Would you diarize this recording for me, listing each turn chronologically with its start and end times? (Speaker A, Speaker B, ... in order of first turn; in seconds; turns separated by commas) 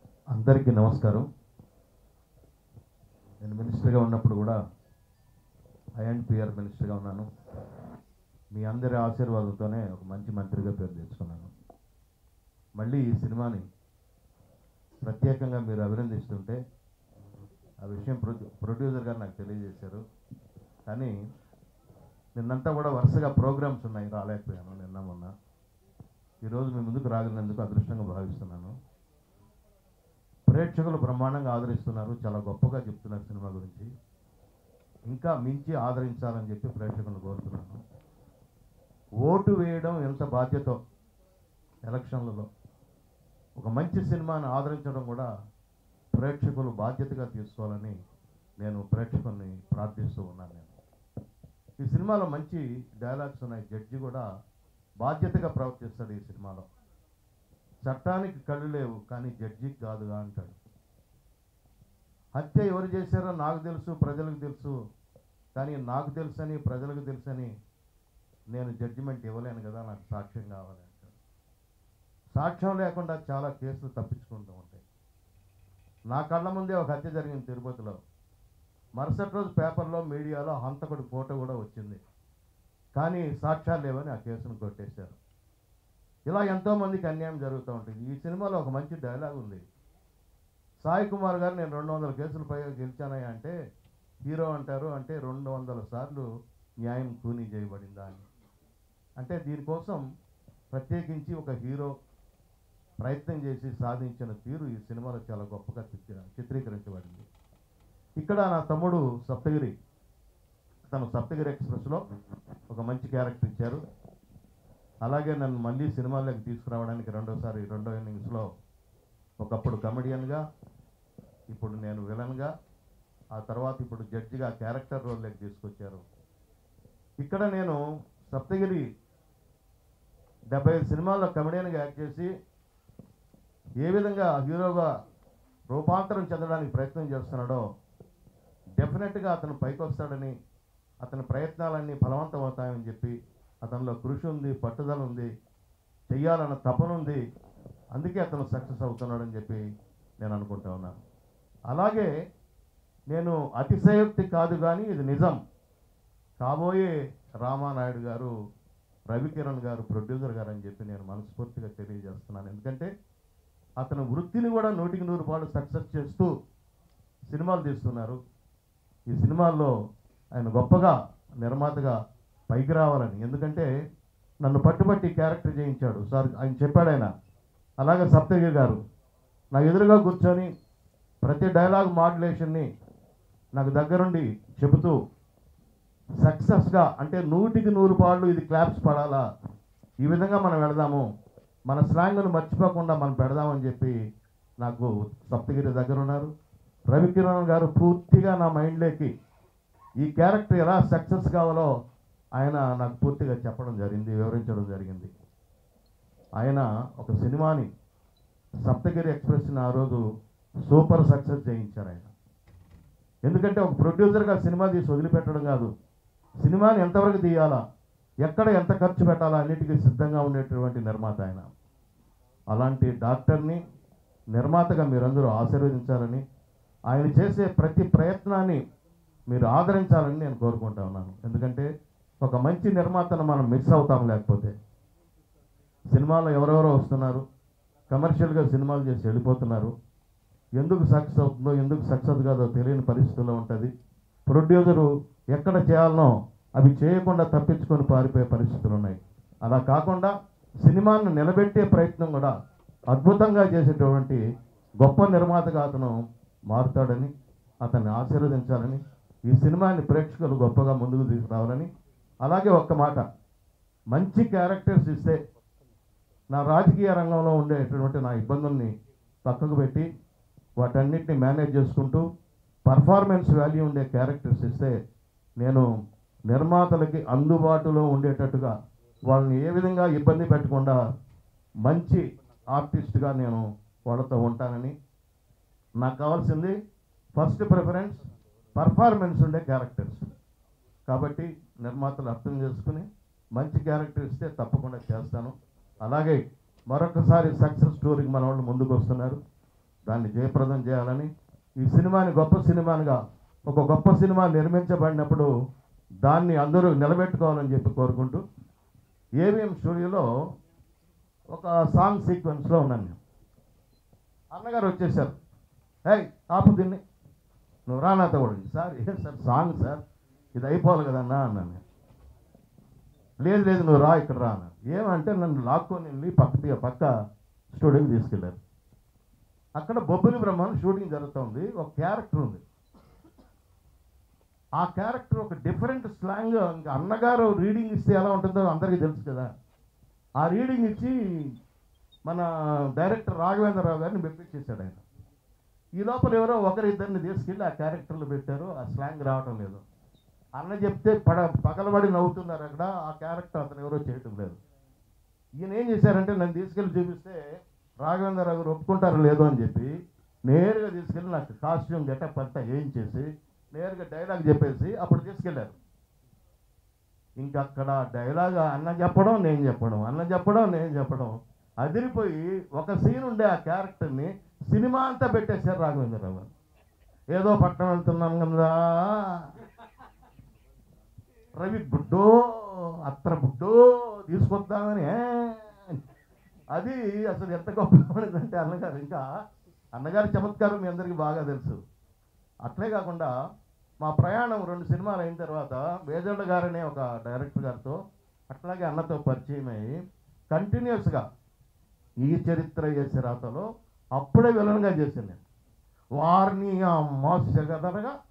Speaker A: 0.3-1.2, Speaker A: 3.4-4.5, Speaker A: 6.0-7.2, Speaker A: 8.5-11.5, Speaker A: 12.8-13.6, Speaker A: 15.0-16.6, Speaker A: 17.8-20.0, Speaker A: 20.9-21.1, Speaker A: 22.4-25.3, Speaker A: 26.4-28.7, Speaker A: 30.5-33.9, Speaker A: 35.1-37.8, Speaker A: 39.2-40.8, Speaker A: 41.9-42.5, Speaker A: 43.6-45.3, Speaker A: 46.2-47.9, Speaker A: 48.6-50.7, Speaker A: 51.8-54.2, Speaker A: 55.0-56.6, Speaker A: 57.8-60.5, Speaker A: 62.4-64.7, Speaker A: 65.5-67.5, Speaker A: 68.5-71.2, Speaker A: 72.3-74.8, Speaker A: 76.1-78.0, Speaker A: 79.0-82.0, Speaker A: 83.0-85.2, Speaker A: 86.3-89.6, Speaker A: 90.8-93.5, Speaker A: 94.3-96.2, Speaker A: 96.8-98.2, Speaker A: 99.2-100.0, Speaker A: 100.7-101.9, Speaker A: 103.0-107.2, Speaker A: 108.2-109.7, Speaker A: 110.9-112.0, Speaker A: 112.7-113.8, Speaker A: 115.0-118.5, Speaker A: 119.4-120.4, Speaker A: 121.5-122.5, Speaker A: 123.3-126.0, Speaker A: 127.2-127.8, Speaker A: 128.3-128.8, Speaker A: 130.5-132.3, Speaker A: 133.8-134.9, Speaker A: 135.7-137.6, Speaker A: 138.8-140.3, Speaker A: 141.0-145.3, Speaker A: 146.1-147.2, Speaker A: 147.9-149.6, Speaker A: 150.2-150.9, Speaker A: 151.7-152.1, Speaker A: 153.1-155.4, Speaker A: 156.4-156.9, Speaker A: 157.4-158.3, Speaker A: 159.1-162.9, Speaker A: 163.8-166.3, Speaker A: 167.3-168.2, Speaker A: 169.1-169.7, Speaker A: 170.3-171.9, Speaker A: 172.5-173.7, Speaker A: 174.4-177.1, Speaker A: 177.8-178.8, Speaker A: 179.5-180.5, Speaker A: 181.2-182.7, Speaker A: 183.6-184.9, Speaker A: 186.2-189.2, Speaker A: 190.0-191.1, Speaker A: 191.7-193.9, Speaker A: 194.6-196.3, Speaker A: 196.9-199.1, Speaker A: 200.0-201.7, Speaker A: 202.4-205.1, Speaker A: 206.4-207.7, Speaker A: 208.6-210.0, Speaker A: 210.7-212.1, Speaker A: 213.2-215.7, Speaker A: 216.4-217.6, Speaker A: 218.2-221.5, Speaker A: 222.5-223.6, Speaker A: 224.3-226.2, Speaker A: 226.9-228.6, Speaker A: 229.3-231.7, Speaker A: 232.2-234.5, Speaker A: 235.9-237.2, Speaker A: 237.9-239.7, Speaker A: 240.6-243.7, Speaker A: 244.3-250.1, Speaker A: 250.6-252.3, Speaker A: 252.9-254.2, Speaker A: 254.8-255.9, Speaker A: 256.5-257.1, Speaker A: 257.6-261.7, Speaker A: 262.2-263.0, Speaker A: 263.9-265.2, Speaker A: 266.3-268.7, Speaker A: 269.2-269.9, Speaker A: 270.6-272.0, Speaker A: 272.7-274.7, Speaker A: 275.4-275.6, Speaker A: 276.3-278.5, Speaker A: 279.1-280.8, Speaker A: 281.6-284.7, Speaker A: 285.8-286.5, Speaker A: 287.2-288.0, Speaker A: 288.5-290.1, Speaker A: 290.9-299.2, Speaker A: 299.9-301.1, Speaker A: 301.6-303.0, Speaker A: 303.5-305.3, Speaker A: 306.1-308.2, Speaker A: 309.2-310.1, Speaker A: 311.3-313.0, Speaker A: 314.3-315.1, Speaker A: 315.9-316.8, Speaker A: 317.7-319.8, Speaker A: 320.4-321.6, Speaker A: 323.2-326.9, Speaker A: 327.5-328.4, Speaker A: 329.6-332.4, Speaker A: 334.6-339.3, Speaker A: 340.2-340.9, Speaker A: 342.1-344.8, Speaker A: 345.8-349.6, Speaker A: 350.4-354.4, Speaker A: 355.4-357.2, Speaker A: 357.8-359.7, Speaker A: 360.3-365.6, Speaker A: 367.2-376.3, Speaker A: 377.1-379.3, Speaker A: 381.4-385.8, Speaker A: 386.5-389.0, Speaker A: 389.8-391.6, Speaker A: 392.4-393.1, Speaker A: 393.8-397.8, Speaker A: 398.3-399.7, Speaker A: 400.3-401.0, Speaker A: 402.0-405.2, Speaker A: 406.0-407.9